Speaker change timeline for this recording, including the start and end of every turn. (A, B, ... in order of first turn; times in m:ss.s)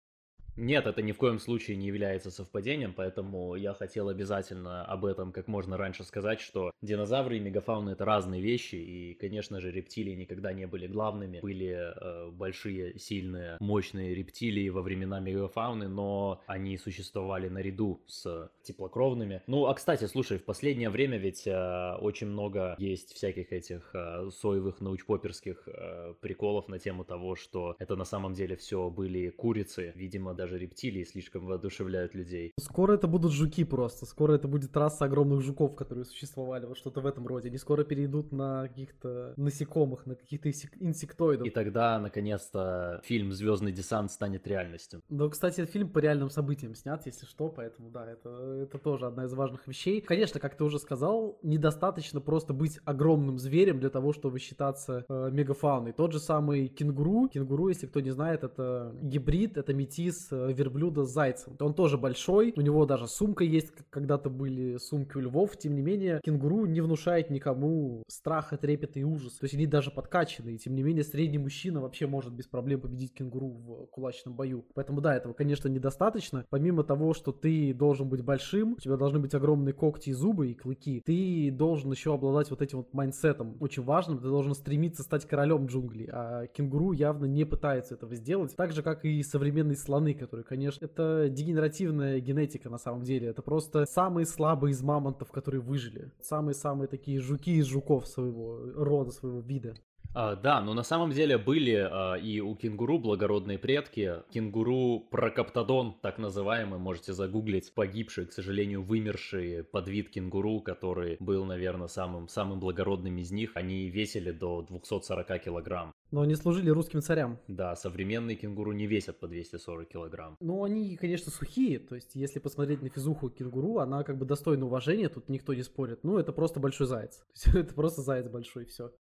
0:00.6-0:32.5 A
0:32.6-0:41.5 B
0:41.4-0:45.0 A
0:45.1-1:39.8 B
1:40.1-1:55.9 A
1:56.1-1:57.4 B
1:57.5-2:00.4 A
2:00.4-2:08.9 B